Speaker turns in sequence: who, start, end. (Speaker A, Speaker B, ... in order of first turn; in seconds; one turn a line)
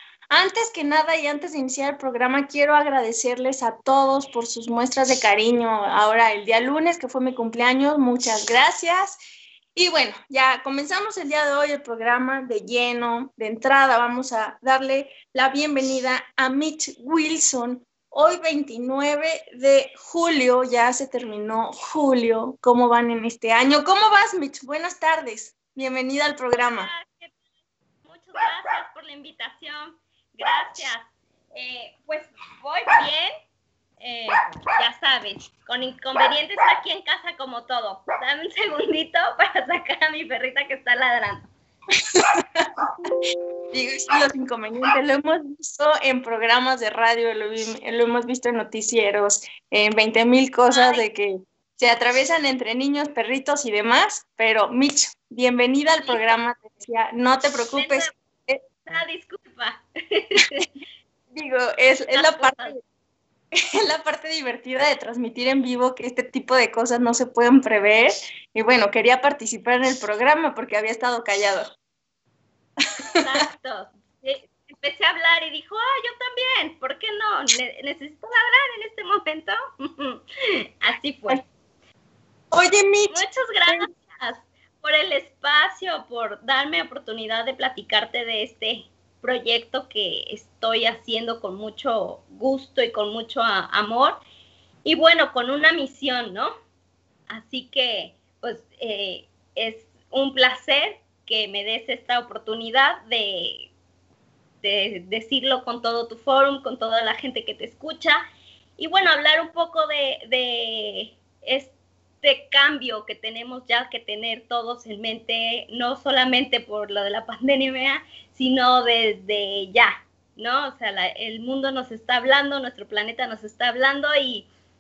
Speaker A: 0.3-9.2
Speaker A: 9.8-26.9
Speaker B: 26.5-27.4
Speaker B: 28.0-33.3
Speaker B: 34.0-41.5
Speaker A: 42.2-43.1
Speaker A: 43.7-58.6
Speaker B: 50.7-51.0
Speaker B: 56.0-56.4
Speaker B: 57.7-58.1
Speaker B: 58.9-60.7
Speaker A: 61.3-62.8
Speaker B: 62.1-62.8
Speaker A: 63.6-71.7
Speaker B: 73.1-80.2
Speaker B: 80.8-81.4
Speaker A: 82.5-83.9
Speaker B: 83.1-94.2
Speaker B: 94.8-96.5
Speaker B: 97.3-103.7
Speaker B: 104.6-108.2
Speaker B: 108.8-124.5